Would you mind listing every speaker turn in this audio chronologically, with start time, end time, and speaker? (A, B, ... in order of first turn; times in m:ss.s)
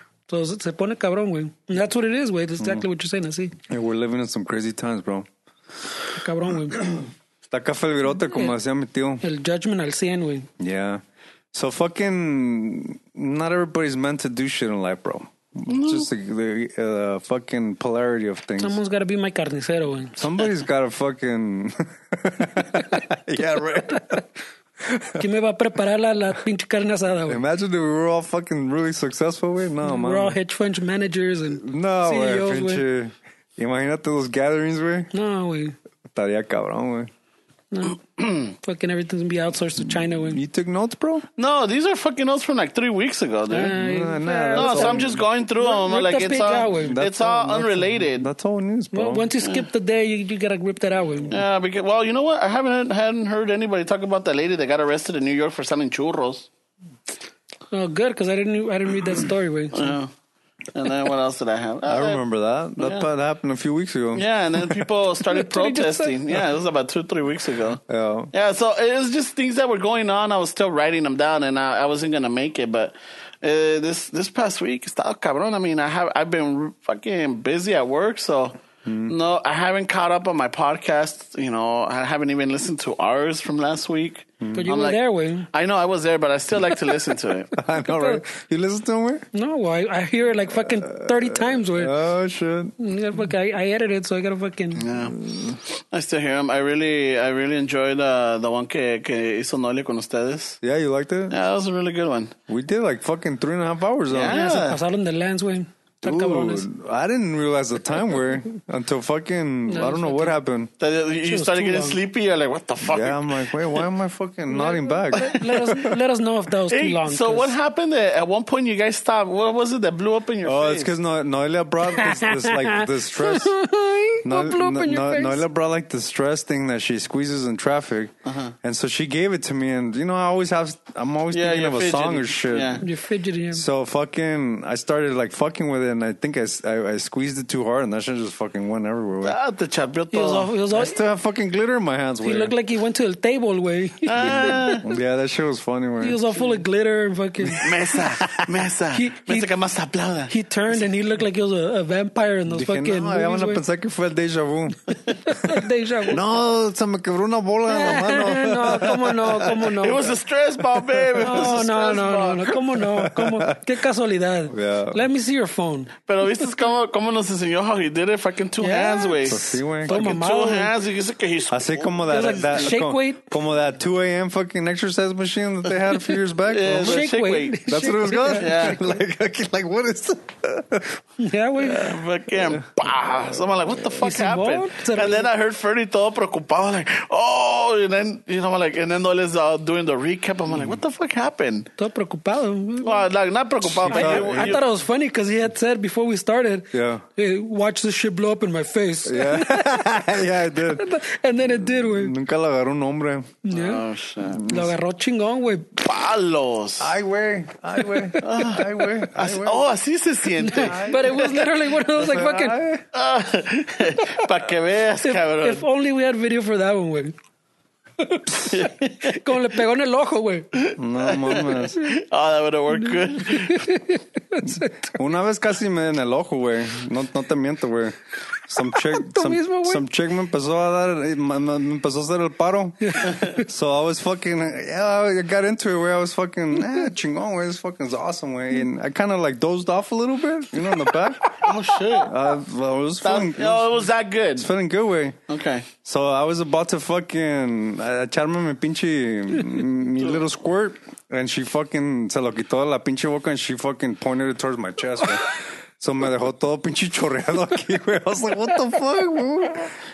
0:00.3-0:03.6 A
0:02.6-0:02.8 B
0:03.7-0:05.3 B
0:06.1-0:07.0 A
0:07.5-0:09.2 B
0:09.2-0:10.5 A
0:10.6-0:11.0 B
0:11.5-0:18.8 B
0:15.7-0:16.1 C
0:18.6-0:20.2 A
0:20.2-0:24.2 B
0:23.8-0:24.2 A
0:24.8-0:25.2 B
0:25.1-0:27.4 A
0:27.3-0:30.4 B
0:29.8-0:32.8 A
0:31.6-0:35.1 B
0:35.1-0:35.8 A
0:36.1-0:37.1 B
0:37.7-0:40.4 A
0:39.8-0:41.2 B
0:41.4-0:43.8 C
0:43.5-0:47.0 A
0:43.7-0:45.2 B
0:44.5-0:48.3 C
0:46.8-0:49.3 B
0:48.9-0:51.3 A
0:51.3-0:56.5 C
0:57.7-1:00.0 A
0:59.7-1:00.1 C
1:00.7-1:02.2 C
1:01.8-1:04.2 B
1:02.8-1:03.1 C
1:04.1-1:25.0 C
1:05.2-1:06.2 A
1:07.9-1:08.3 B
1:18.8-1:19.1 B
1:24.4-1:24.7 B
1:24.5-1:25.5 A
1:25.5-1:27.5 C
1:27.5-1:29.3 B
1:27.8-1:28.2 A
1:29.3-1:31.9 A
1:30.5-1:32.7 B
1:32.8-1:34.9 A
1:34.7-1:40.6 C
1:40.6-1:41.3 B
1:41.3-1:42.3 C
1:42.5-1:44.4 B
1:44.1-1:44.8 C
1:44.3-1:46.6 A
1:46.0-1:50.7 B
1:49.7-1:50.4 A
1:50.8-1:53.8 C
1:51.2-1:52.0 A
1:52.8-1:56.0 B
1:54.5-1:57.5 A
1:55.2-1:55.4 C
1:56.7-2:00.9 C
2:00.4-2:03.5 B
2:01.9-2:05.4 A
2:04.2-2:12.8 B
2:08.2-2:08.5 C
2:11.3-2:12.8 C
2:12.8-2:13.6 A
2:13.5-2:19.4 B
2:19.2-2:20.5 C
2:20.1-2:21.0 A
2:20.7-2:22.5 B
2:22.2-2:24.8 A
2:24.0-2:24.8 C
2:24.2-2:26.2 B
2:26.0-2:28.0 A
2:27.6-2:30.3 C
2:28.9-2:29.5 A
2:30.3-2:33.6 A
2:32.5-2:35.6 B
2:35.2-2:36.2 A
2:36.1-2:39.7 B
2:37.7-2:40.1 A
2:39.6-2:42.6 C
2:40.9-2:41.5 B
2:41.2-2:46.5 A
2:42.8-2:43.6 B
2:44.5-2:45.0 B
2:46.0-2:52.7 C
2:48.6-2:50.7 A
2:49.2-2:50.1 B
2:51.5-2:57.1 B
2:52.1-2:53.4 A
2:56.5-2:57.6 C
2:56.8-2:58.8 A
2:57.6-3:00.9 B
2:58.3-2:58.8 C
3:01.2-3:02.0 A
3:01.6-3:11.7 C
3:03.9-3:05.2 A
3:10.5-3:10.8 B
3:11.8-3:13.1 A
3:12.8-3:14.6 C
3:13.6-3:14.6 B
3:13.9-3:20.0 A
3:16.7-3:17.0 B
3:19.0-3:20.8 B
3:20.5-3:22.1 A
3:21.5-3:23.4 B
3:23.4-3:25.7 A
3:23.5-3:24.4 C
3:24.3-3:24.7 B
3:25.8-3:26.9 C
3:26.8-3:29.6 B
3:27.8-3:28.6 A
3:28.2-3:31.4 C
3:30.4-3:32.6 A
3:30.6-3:32.8 B
3:32.9-3:35.6 C
3:35.0-3:37.1 A
3:38.0-3:40.5 A
3:38.4-3:39.2 C
3:40.5-3:43.7 C
3:40.8-3:41.8 B
3:42.8-3:44.9 A
3:44.4-4:01.4 B
3:48.6-3:49.8 A
3:52.8-3:53.4 A
3:53.0-3:53.4 C
4:01.4-4:02.1 C
4:02.0-4:05.2 B
4:03.0-4:04.5 C
4:05.3-4:05.7 C
4:05.8-4:19.8 B